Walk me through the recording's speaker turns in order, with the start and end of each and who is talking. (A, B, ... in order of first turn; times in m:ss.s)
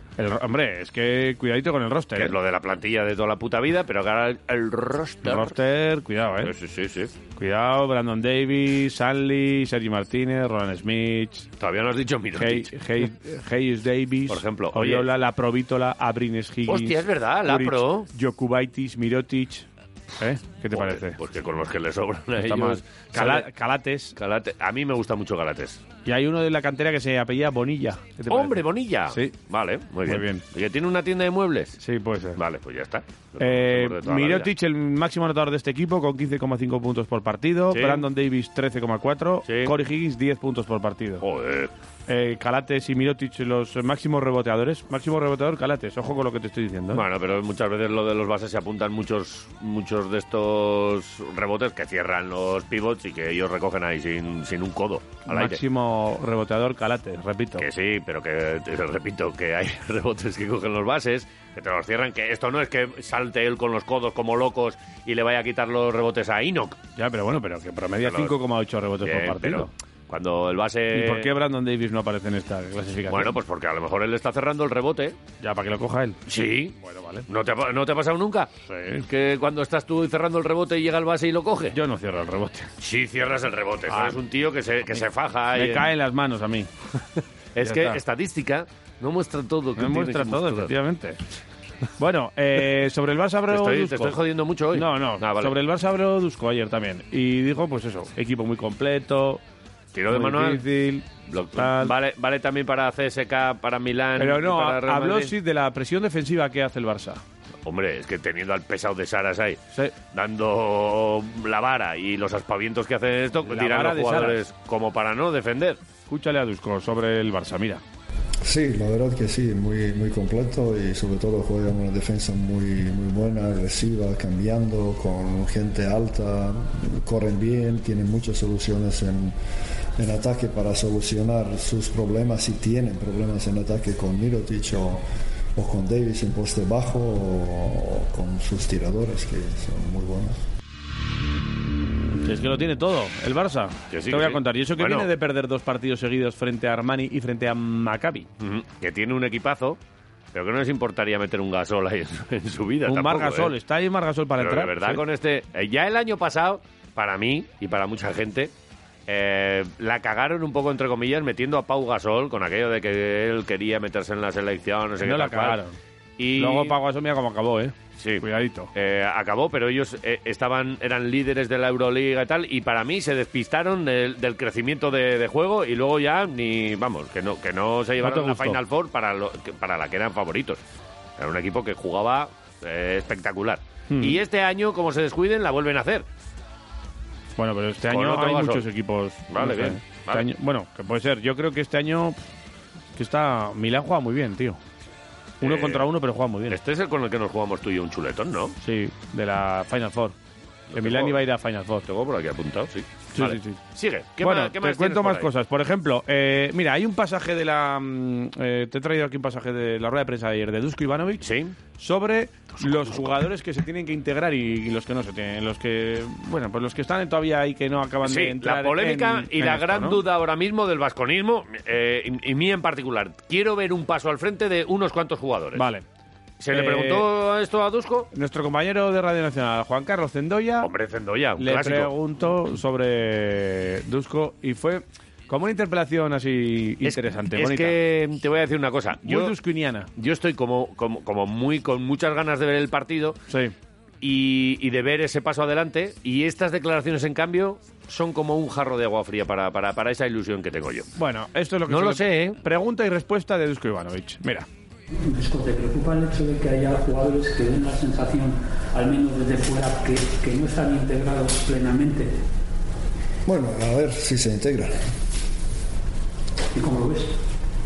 0:00.2-0:02.3 A
0:02.2-0:05.6 B
0:05.2-0:06.5 A
0:06.4-0:07.1 B
0:07.4-0:11.5 A
0:11.6-0:12.7 B
0:12.4-0:19.7 A
0:14.3-0:15.1 B
0:16.7-0:18.1 B
0:20.2-0:21.2 A
0:20.7-0:23.5 B
0:22.4-0:24.1 A
0:24.1-0:25.8 B
0:26.0-0:29.3 A
0:28.3-0:31.8 B
0:30.1-0:30.4 A
0:31.8-0:32.4 A
0:32.4-0:34.5 B
0:33.4-0:41.2 A
0:37.7-0:38.0 B
0:39.4-0:39.7 B
0:41.2-0:41.7 B
0:42.1-0:47.0 A
0:46.9-0:55.6 B
0:55.3-0:57.6 A
0:57.6-1:06.8 B
1:07.0-1:09.7 A
1:08.0-1:08.4 B
1:09.0-1:11.3 B
1:10.9-1:13.3 A
1:13.1-1:15.2 B
1:15.4-1:16.2 A
1:16.3-1:16.8 B
1:16.8-1:17.3 A
1:17.3-1:18.5 B
1:18.7-1:19.0 A
1:19.1-1:21.8 B
1:21.7-1:22.7 A
1:22.8-1:25.9 B
1:23.9-1:24.2 A
1:25.5-1:26.7 A
1:27.5-1:30.7 B
1:27.6-1:28.0 A
1:29.8-1:31.2 A
1:32.0-1:34.2 A
1:33.5-1:35.5 B
1:34.7-1:39.4 A
1:39.9-1:40.6 B
1:40.1-1:41.9 A
1:41.3-1:45.3 B
1:44.2-1:47.2 A
1:47.6-1:49.6 B
1:50.1-1:55.8 B
1:53.4-1:54.4 A
1:56.1-1:57.8 A
1:58.4-2:09.3 C
2:10.0-2:15.0 C
2:15.6-2:20.4 C
2:22.2-2:28.3 A
2:23.9-2:25.1 B
2:28.4-2:29.8 B
2:30.3-2:33.5 B
2:32.9-2:35.0 A
2:34.4-2:38.5 B
2:39.1-2:45.6 B
2:45.0-2:45.8 A
2:46.2-2:46.8 B
2:46.4-2:48.7 A
2:48.0-3:00.6 B
2:58.0-2:58.6 A
3:01.2-3:06.0 B
3:03.9-3:04.2 A
3:07.4-3:12.2 A
3:07.9-3:08.6 B
3:09.3-3:10.2 B
3:13.0-3:14.6 A
3:15.4-3:15.8 B
3:15.4-3:16.6 A
3:16.5-3:18.5 B
3:18.6-3:20.2 A
3:20.7-3:21.2 B
3:20.7-3:21.8 A
3:21.9-3:25.3 B
3:23.1-3:23.6 A
3:24.2-3:31.2 A
3:31.2-3:31.5 B
3:31.8-3:40.0 A
3:32.6-3:33.1 B
3:38.0-3:45.6 B
3:45.6-3:45.8 A
3:46.4-3:48.1 B
3:46.5-3:47.0 A
3:48.1-3:50.7 A
3:50.6-3:51.9 B
3:51.4-3:57.8 A
3:56.8-3:59.3 B
3:59.0-3:59.9 A
4:00.0-4:03.2 B
4:03.3-4:03.5 A
4:04.0-4:10.9 B
4:11.0-4:14.5 A
4:11.7-4:12.4 B
4:14.9-4:22.1 D
4:23.2-4:24.8 C
4:26.5-4:27.2 D